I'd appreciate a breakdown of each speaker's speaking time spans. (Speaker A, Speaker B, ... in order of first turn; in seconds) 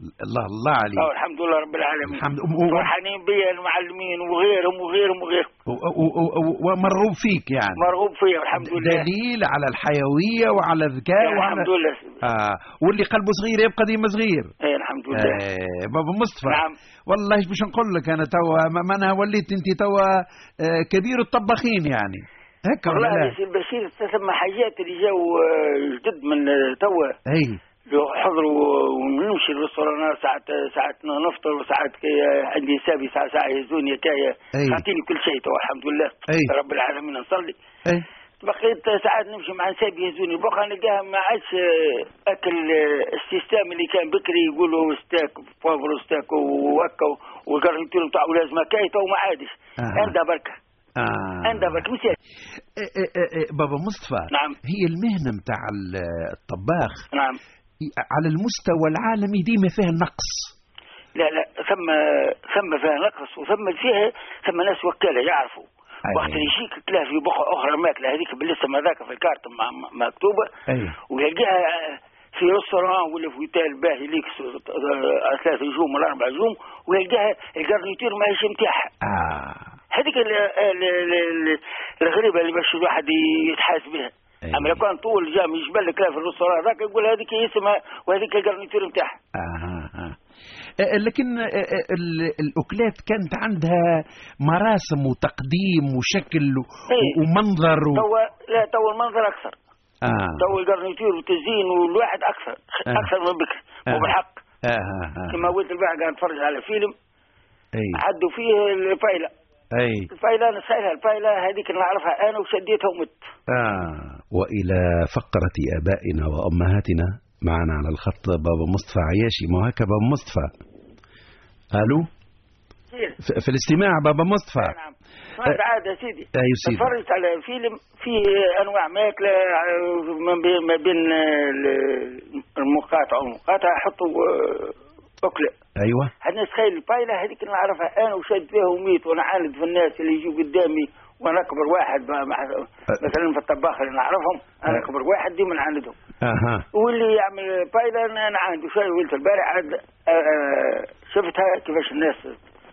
Speaker A: 0.2-1.1, 2.0-2.9, 5.7-7.8, 8.6-11.7, 12.2-14.5, 15.1-23.4, 27.3-27.6, 34.5-34.8, 49.8-50.1, 51.0-51.9, 52.8-57.0, 57.8-60.5, 66.1-66.5, 70.7-71.0, 79.0-79.7, 84.5-84.8, 89.3-90.2, 90.8-98.0, 100.0-100.5, 103.9-105.5, 107.8-108.0, 109.7-110.1, 113.5-120.5, 121.7-122.1, 123.2-124.7, 126.3-126.9, 135.8-136.1, 146.2-146.7
Speaker B: 0.9-5.5, 7.8-9.1, 11.2-12.2, 14.6-15.4, 16.4-16.7, 22.8-27.1, 27.9-37.6, 38.4-50.6, 51.4-52.2, 54.3-54.6, 57.1-57.4, 61.1-70.5, 71.1-78.9, 79.9-89.2, 96.9-97.2, 97.9-99.5, 100.4-104.4, 105.3-106.9, 107.9-109.3, 110.1-113.2, 122.9-123.2, 124.6-135.5, 136.2-145.9, 146.7-152.4